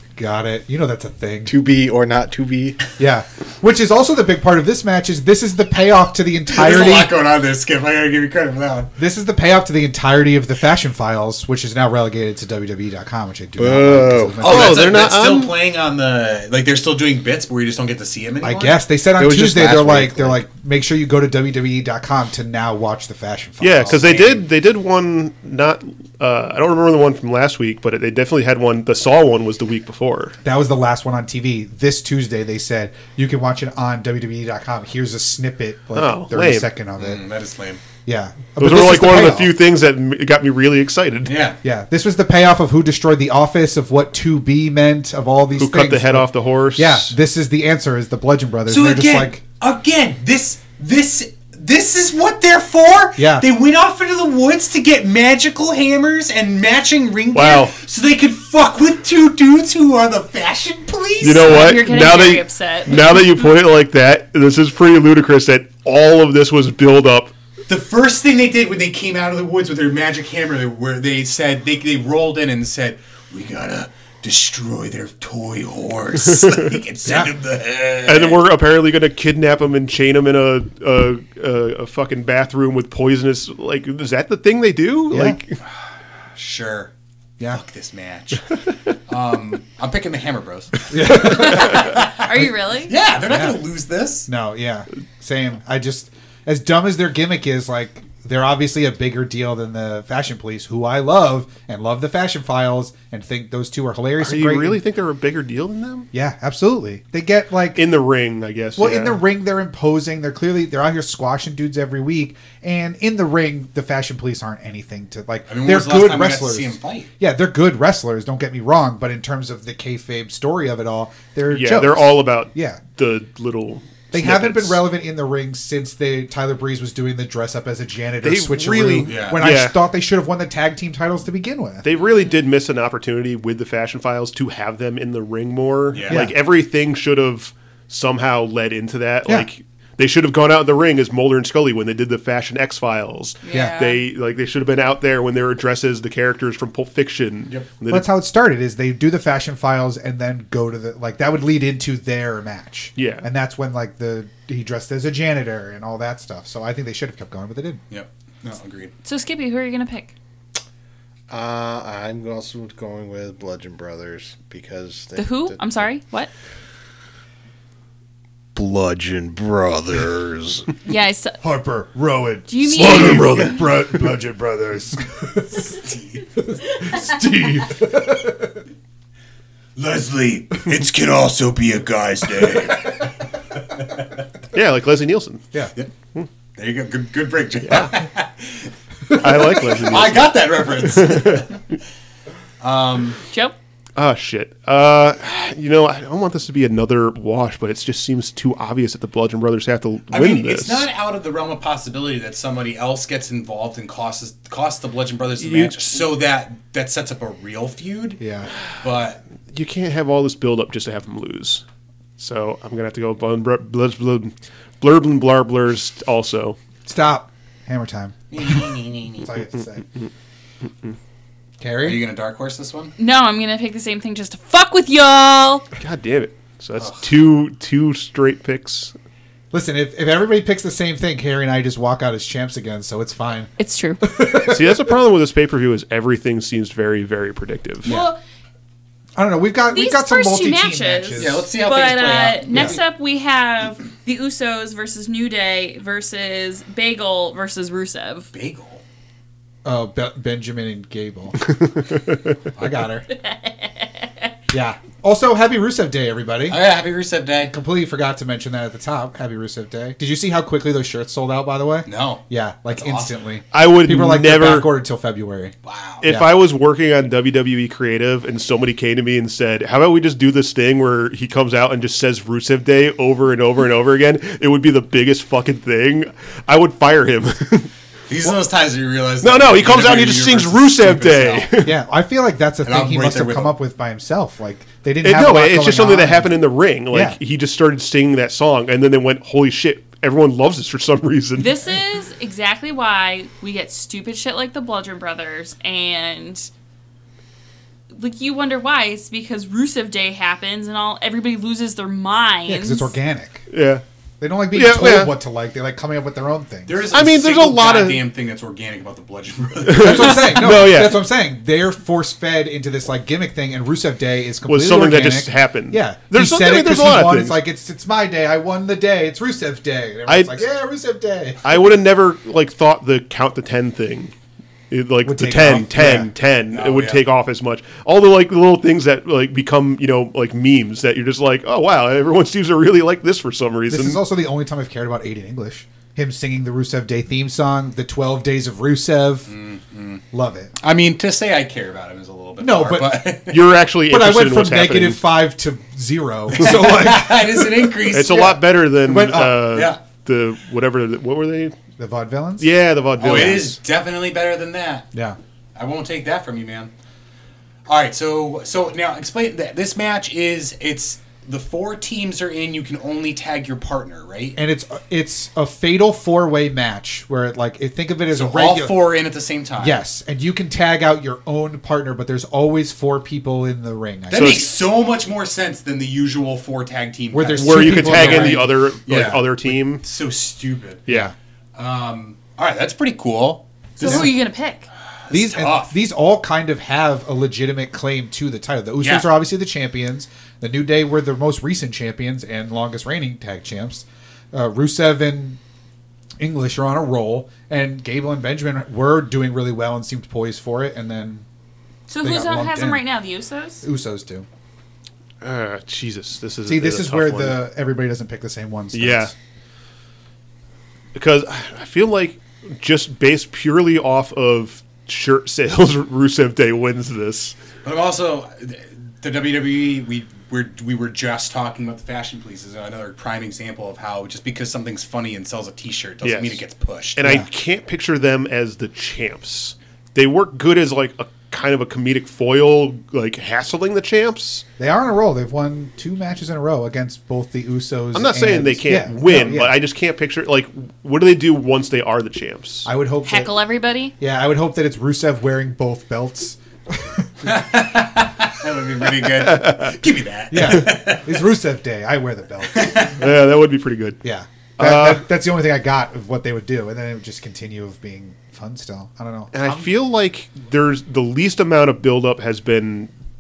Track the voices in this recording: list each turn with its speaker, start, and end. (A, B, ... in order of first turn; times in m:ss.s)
0:00.2-0:01.6 A
0:01.4-0:02.8 B
0:03.0-0:07.1 A
0:06.5-0:08.9 C
0:09.0-0:14.9 A
0:13.6-0:14.4 B
0:14.4-0:18.7 C
0:14.4-0:15.5 D
0:18.4-0:24.0 A
0:19.2-0:20.4 B
0:23.6-0:30.4 D
0:23.8-0:24.4 C
0:30.4-0:37.2 A
0:35.9-0:36.7 D
0:37.0-0:37.8 C
0:38.0-0:39.5 A
0:38.6-0:41.4 D
0:41.2-0:41.6 C
0:41.6-0:49.4 A
0:45.6-0:47.1 D
0:48.7-1:01.8 C
0:53.2-0:53.4 A
0:57.3-0:57.8 D
1:01.2-1:07.3 D
1:01.3-1:03.4 E
1:07.7-1:18.4 C
1:16.4-1:16.7 D
1:17.0-1:17.3 A
1:18.0-1:25.6 D
1:25.1-1:25.4 A
1:26.3-1:26.9 C
1:27.5-1:28.4 C
1:29.1-1:30.9 C
1:30.9-1:31.8 A
1:31.1-1:32.9 E
1:31.6-1:32.1 C
1:32.9-1:34.3 C
1:33.3-1:33.6 A
1:34.3-1:44.8 A
1:44.2-1:46.1 D
1:46.1-1:47.8 A
1:47.8-1:49.2 D
1:48.8-2:02.8 A
1:55.5-1:57.1 C
2:01.5-2:04.8 D
2:04.1-2:11.8 A
2:08.2-2:09.8 D
2:09.0-2:09.4 C
2:11.8-2:28.1 D
2:15.9-2:16.3 C
2:16.1-2:16.3 A
2:23.4-2:24.0 E
2:27.9-2:37.8 A
2:33.0-2:33.3 D
2:37.9-2:38.9 C
2:39.0-2:40.1 E
2:41.3-2:45.7 B
2:45.2-2:46.3 E
2:48.5-2:50.7 B
2:50.8-2:51.4 E
2:51.4-2:55.8 A
2:52.5-2:53.6 E
2:52.7-2:53.7 D
2:55.6-2:56.2 C
2:56.4-2:58.6 A
2:59.8-3:04.0 C
3:04.5-3:05.4 D
3:06.6-3:08.7 C
3:07.6-3:07.9 D
3:09.2-3:11.4 D
3:09.4-3:11.6 C
3:12.6-3:13.2 C
3:14.0-3:20.9 D
3:20.1-3:28.2 C
3:25.4-3:25.8 D
3:28.2-3:28.5 A
3:28.8-3:29.2 C
3:29.5-3:31.6 D
3:32.2-3:36.6 D
3:36.8-3:38.2 A
3:38.3-3:39.3 C
3:39.2-3:39.9 A
3:41.6-3:42.0 A
3:41.8-3:42.9 C
3:43.0-3:45.6 E
3:45.8-3:48.9 D
3:46.8-3:47.0 C
3:49.5-3:53.5 A
3:53.6-3:54.1 E
3:54.0-3:54.9 A
3:54.4-3:57.9 D
3:57.8-3:58.1 A
3:57.8-3:58.2 E
3:59.2-4:01.4 A
3:59.7-4:08.3 E
4:01.2-4:02.8 C
4:02.5-4:02.8 A
4:08.3-4:08.8 C
4:09.6-4:11.5 A
4:12.6-4:13.0 A
4:13.1-4:14.3 E
4:14.5-4:16.6 A
4:16.5-4:17.5 C
4:17.5-4:26.3 A
4:21.9-4:23.2 C
4:23.5-4:24.7 D
4:25.6-4:26.0 C
4:26.0-4:37.7 D
4:38.1-4:41.6 C
4:39.2-4:41.8 D
4:41.6-4:46.3 A
4:42.6-4:43.6 C
4:45.0-4:51.6 D
4:46.9-4:47.2 A
4:51.4-4:56.5 E
4:57.9-5:02.9 E
5:02.5-5:03.5 A
5:03.5-5:03.8 D
5:04.2-5:06.9 A
5:04.5-5:05.1 D
5:06.7-5:10.5 C
5:06.9-5:08.0 D
5:09.6-5:11.0 D
5:09.7-5:21.4 A
5:14.5-5:17.4 D
5:20.1-5:20.4 D
5:21.4-5:24.1 D
5:24.7-5:34.0 D
5:25.0-5:26.1 A
5:25.4-5:25.7 C
5:26.5-5:27.0 C
5:33.7-5:39.3 A
5:39.3-5:40.0 C
5:40.1-5:40.5 A
5:40.6-5:43.4 C
5:42.4-5:43.1 A
5:43.3-5:45.0 D
5:43.9-5:48.3 A
5:46.3-5:48.4 C
5:47.9-5:51.6 D
5:48.8-5:49.6 A
5:49.5-5:49.8 C
5:51.8-5:52.5 A
5:52.4-5:53.6 D
5:53.0-5:54.9 C
5:53.0-5:53.5 A
5:55.6-5:56.7 C
5:57.7-6:04.4 C
6:04.4-6:08.9 A
6:08.1-6:09.8 C
6:09.6-6:14.4 A
6:14.1-6:20.9 C
6:14.1-6:14.5 D
6:17.1-6:18.5 A
6:17.4-6:19.8 D
6:20.9-6:21.1 D
6:20.9-6:21.1 A
6:21.6-6:24.1 C
6:23.8-6:24.7 E
6:25.0-6:25.8 C
6:25.1-6:35.4 A
6:28.8-6:29.1 C
6:36.2-6:41.2 A
6:41.9-6:43.6 E
6:42.0-6:42.8 A
6:43.6-6:44.3 A
6:45.2-6:47.4 D
6:46.4-6:49.1 A
6:48.7-6:49.1 D
6:50.9-6:57.3 D
6:57.6-7:07.0 C
7:06.0-7:06.4 D
7:07.0-7:14.4 D
7:14.6-7:19.5 A
7:17.9-7:22.7 D
7:22.6-7:23.3 A
7:23.0-7:23.9 E
7:24.0-7:27.1 A
7:27.2-7:31.1 C
7:29.3-7:29.7 D
7:30.3-7:32.9 A
7:32.5-7:32.9 C
7:33.0-7:34.0 D
7:34.0-7:39.7 A
7:34.6-7:35.0 D
7:39.3-7:42.9 D